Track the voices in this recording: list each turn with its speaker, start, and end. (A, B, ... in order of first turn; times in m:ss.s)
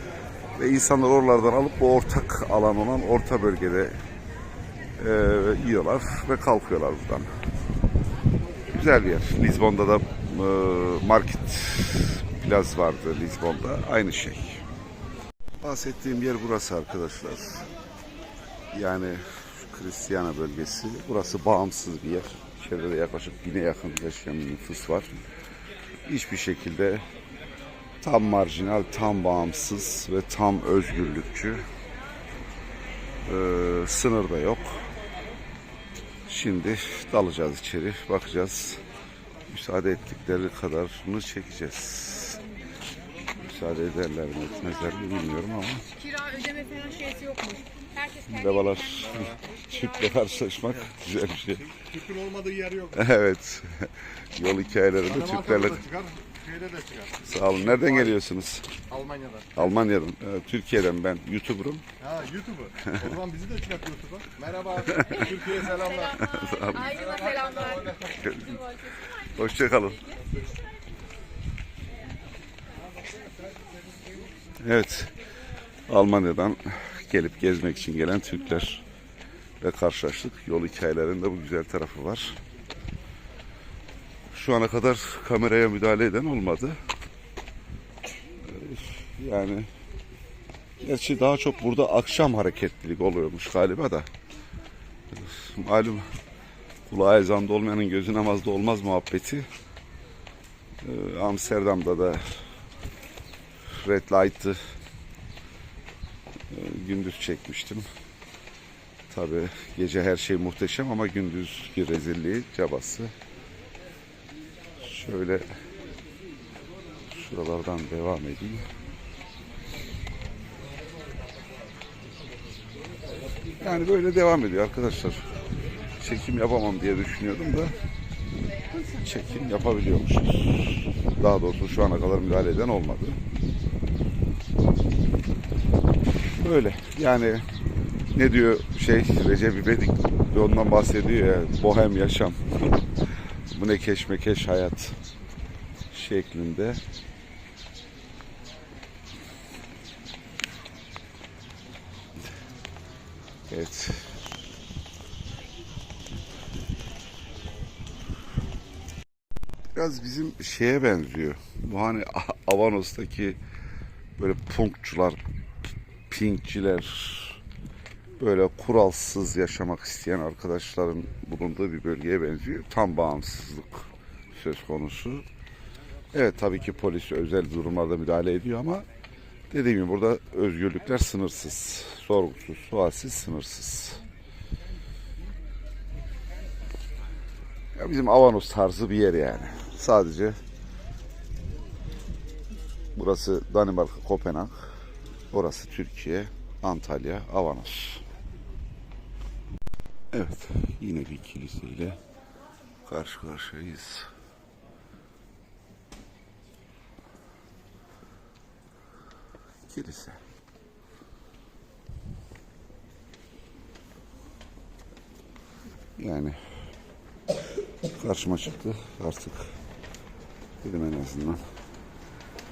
0:00.6-0:04.0 A
0:05.0-0:07.3 A
0:08.7-0:14.6 A
0:15.6-0:17.7 A
0:18.7-0:25.2 A
0:26.0-0:27.0 A
0:28.0-0:31.6 A
0:33.2-0:34.9 A
0:36.3-0:38.8 A
0:39.5-0:42.4 A
0:43.4-0:45.9 A
0:46.0-0:48.0 B
0:47.0-0:47.3 C
0:48.2-0:51.7 A
0:49.1-0:49.4 C
0:51.6-0:53.1 C
0:52.9-0:55.8 A
0:55.0-0:58.2 C
0:57.2-0:58.7 A
0:58.9-0:59.7 C
0:59.6-1:01.8 A
1:02.0-1:08.5 C
1:04.8-1:07.2 A
1:08.0-1:10.2 A
1:14.6-1:15.1 A
1:15.9-1:18.8 A
1:19.6-1:22.4 A
1:24.3-1:26.8 A
1:28.4-1:29.7 A
1:30.8-1:34.1 A
1:35.1-1:36.0 A
1:36.9-1:39.5 A
1:40.8-1:42.2 A
1:43.8-1:44.6 A
1:46.5-1:47.8 A
1:49.1-1:53.1 A
1:54.8-1:55.4 A
1:57.1-1:58.6 A
2:03.6-2:05.2 A
2:06.0-2:07.8 A
2:08.8-2:13.2 A
2:16.4-2:17.4 A
2:18.1-2:22.4 A
2:23.5-2:25.0 A
2:25.9-2:26.8 A
2:33.5-2:34.1 A
2:39.7-2:43.4 A
2:44.2-2:45.2 A
2:46.1-2:47.4 A
2:48.2-2:55.2 A
2:56.1-2:58.8 A
2:59.5-3:04.0 A
3:07.8-3:10.4 A
3:13.0-3:14.6 A
3:15.3-3:18.0 A
3:20.1-3:22.0 A
3:22.8-3:24.1 A
3:29.7-3:30.2 A
3:36.0-3:36.4 A
3:38.0-3:39.5 A
3:40.6-3:41.4 A